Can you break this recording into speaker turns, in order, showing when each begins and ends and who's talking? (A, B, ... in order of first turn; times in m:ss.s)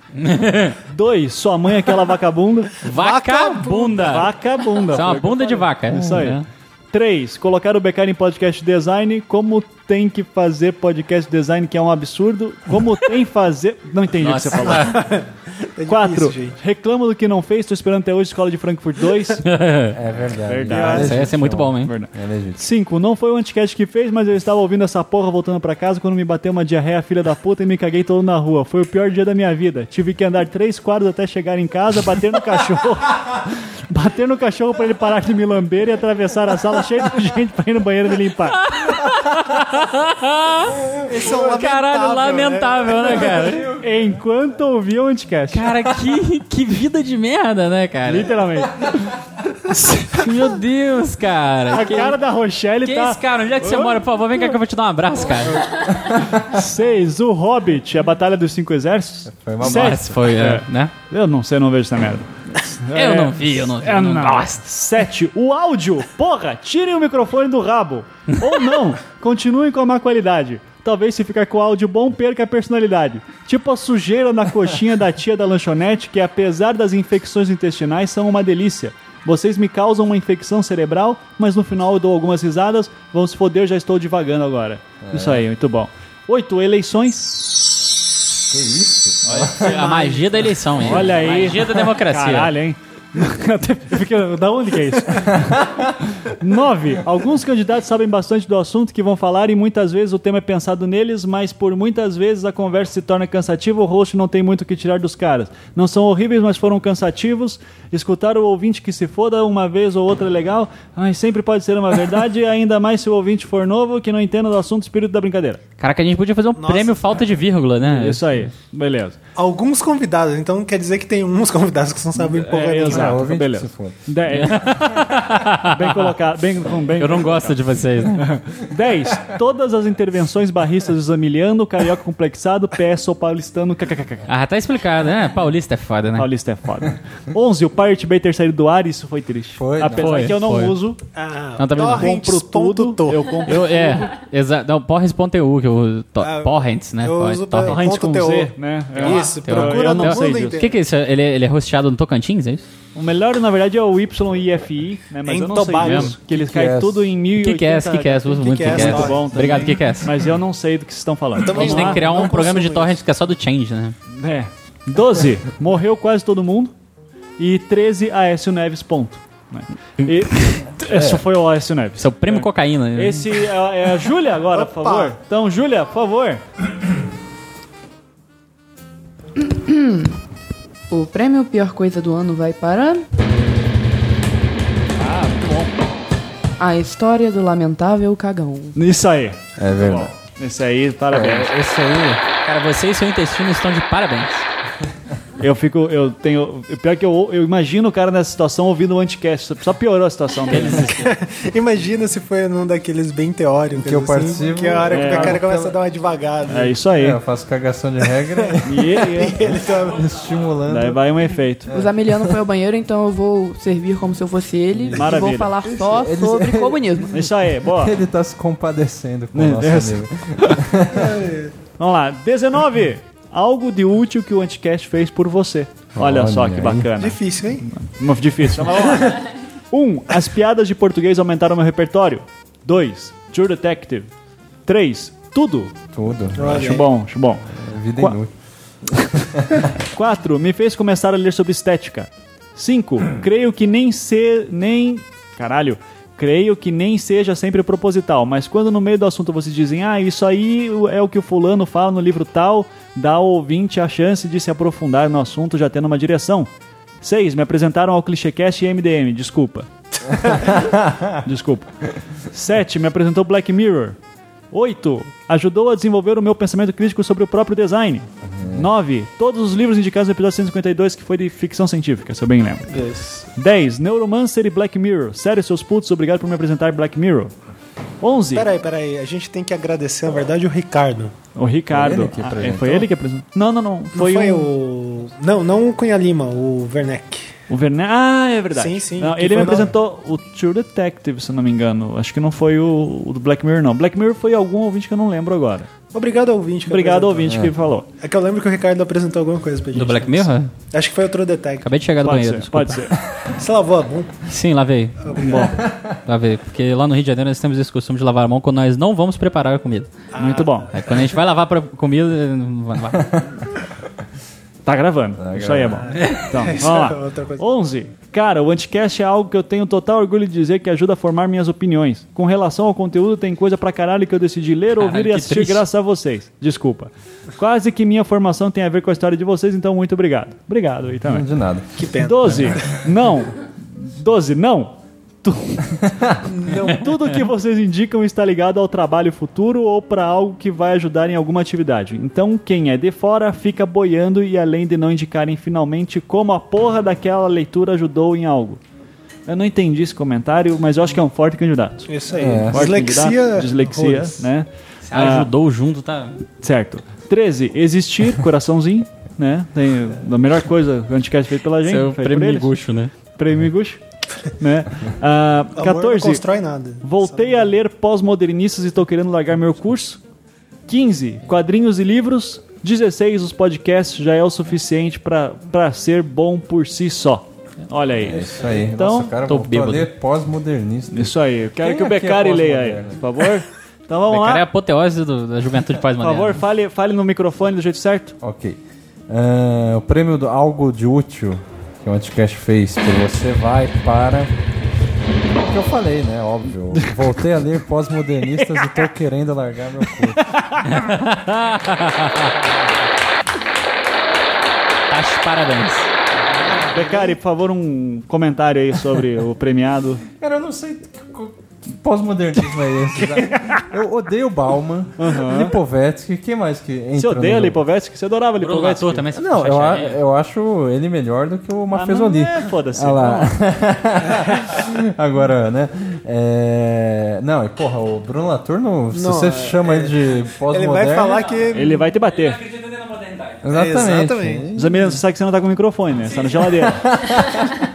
0:00.2-0:00.8 A
0:00.9-0:02.8 B
0:02.8-0:04.3 A
0:02.9-0:04.1 C
0:03.9-0:15.1 B
0:04.9-0:06.4 A
0:14.2-0:15.0 A
0:14.7-0:16.6 C
0:15.9-0:19.4 B
0:19.4-0:20.0 A
0:19.9-0:22.6 D
0:20.5-0:38.6 B
0:20.7-0:21.0 C
0:20.8-0:21.9 A
0:38.6-0:43.7 A
0:40.9-0:41.4 D
0:41.0-0:43.4 C
0:43.2-0:44.1 D
0:43.8-0:45.7 B
0:45.5-0:48.3 A
0:48.0-0:49.0 B
0:49.7-0:50.3 B
0:50.1-0:52.2 A
0:51.7-0:54.0 B
0:52.8-0:55.8 A
0:55.9-0:56.4 D
0:56.4-1:27.6 B
0:59.3-1:00.2 D
0:59.6-1:00.9 A
1:02.9-1:04.6 A
1:25.0-1:25.4 D
1:28.5-1:30.0 D
1:29.3-1:32.5 A
1:29.8-1:30.2 C
1:30.8-1:55.6 B
1:35.4-1:35.9 D
1:55.8-1:58.2 A
1:56.6-1:57.2 C
1:57.8-1:59.2 B
1:59.4-2:03.2 C
2:02.2-2:05.0 B
2:02.8-2:04.0 D
2:04.3-2:06.1 A
2:05.6-2:07.6 B
2:07.0-2:08.3 A
2:08.2-2:14.3 B
2:14.3-2:16.3 A
2:16.2-2:21.0 B
2:19.6-2:20.3 D
2:20.0-2:20.8 A
2:21.2-2:23.5 C
2:21.6-2:22.2 A
2:21.8-2:24.1 B
2:23.5-2:27.9 A
2:26.2-2:30.7 C
2:27.6-2:30.6 B
2:29.0-2:32.6 A
2:33.0-2:42.2 B
2:35.3-2:36.2 C
2:35.8-2:36.1 A
2:36.3-2:37.1 D
2:37.4-2:40.1 A
2:38.4-2:39.7 C
2:41.4-2:43.0 C
2:41.5-2:44.0 A
2:44.1-2:46.7 B
2:47.4-2:56.4 B
2:50.1-2:50.4 A
2:52.0-2:53.4 A
2:54.4-2:55.2 C
2:59.4-3:00.2 E
3:00.9-3:03.0 E
3:05.0-3:05.7 B
3:06.6-3:08.8 E
3:08.8-3:11.5 B
3:09.6-3:10.1 D
3:11.1-3:12.2 D
3:12.4-3:14.4 A
3:15.4-3:20.9 B
3:20.5-3:21.1 A
3:20.8-3:26.8 C
3:23.8-3:25.8 D
3:24.9-3:25.4 B
3:26.5-3:27.2 B
3:27.0-3:31.0 D
3:28.6-3:29.4 B
3:29.1-3:30.1 C
3:30.7-3:31.7 B
3:31.7-3:32.4 D
3:31.7-3:37.1 E
3:34.7-3:41.2 D
3:35.0-3:35.6 B
3:37.1-3:38.0 B
3:39.3-3:40.6 B
3:40.9-3:41.5 C
3:41.8-3:54.1 B
3:46.0-3:46.9 D
3:47.0-3:47.7 C
3:54.7-3:55.8 B
3:55.9-3:56.8 D
3:56.4-3:56.8 C
3:56.4-3:58.2 B
3:57.5-3:58.3 D
3:59.2-3:59.7 D
3:59.8-4:16.5 B
4:17.0-4:19.7 B
4:20.3-4:21.2 D
4:21.2-4:21.7 B
4:22.3-4:24.0 B
4:24.5-4:32.7 B
4:28.2-4:28.7 D
4:32.7-4:33.2 C
4:33.4-4:37.3 B
4:38.0-4:38.5 B
4:38.3-4:41.2 C
4:41.4-4:44.5 B
4:41.7-4:42.9 D
4:43.9-4:47.3 C
4:47.5-4:55.7 B
4:48.5-4:49.7 C
4:55.9-4:57.4 C
4:56.7-4:57.9 B
4:57.3-4:57.5 D
4:58.0-5:01.7 C
4:59.7-5:00.5 A
5:01.6-5:02.8 A
5:02.0-5:03.0 B
5:03.3-5:04.2 C
5:04.3-5:09.9 A
5:05.0-5:05.5 C
5:05.2-5:05.6 B
5:05.6-5:05.9 D
5:10.1-5:10.7 C
5:10.2-5:10.7 B
5:10.7-5:13.3 A
5:14.6-5:31.3 B
5:15.2-5:16.0 D
5:15.7-5:17.4 C
5:24.8-5:25.6 A
5:31.1-5:31.7 D
5:31.8-5:32.8 C
5:32.0-5:35.8 B
5:32.2-5:32.6 D
5:36.2-5:36.9 C
5:36.6-5:48.6 B
5:49.3-5:51.9 B
5:51.9-5:54.3 C
5:52.2-5:52.8 D
5:52.5-5:55.3 B
5:54.9-5:56.2 A
5:56.4-6:02.5 B
6:01.6-6:02.9 A
6:03.2-6:03.8 B
6:04.4-6:06.2 B
6:05.6-6:07.5 C
6:06.8-6:10.0 B
6:10.7-6:19.1 B
6:18.0-6:23.2 D
6:19.3-6:19.9 A
6:20.9-6:24.5 B
6:24.1-6:26.4 A
6:26.0-6:28.2 B
6:28.2-6:34.3 D
6:35.3-6:40.3 D
6:38.3-6:38.9 B
6:40.2-6:40.8 B
6:40.7-6:42.3 A
6:44.9-6:45.9 A
6:46.2-6:47.2 C
6:46.7-6:50.0 B
6:50.2-6:57.6 D
6:55.0-6:55.6 B
6:57.0-6:59.1 B
6:58.4-7:00.0 A
6:59.1-7:11.4 D
7:01.7-7:03.4 B
7:08.9-7:11.9 C
7:11.5-7:12.4 B
7:12.2-7:13.4 A
7:13.4-7:15.0 D
7:13.5-7:14.5 C
7:14.6-7:16.9 B
7:16.6-7:17.6 D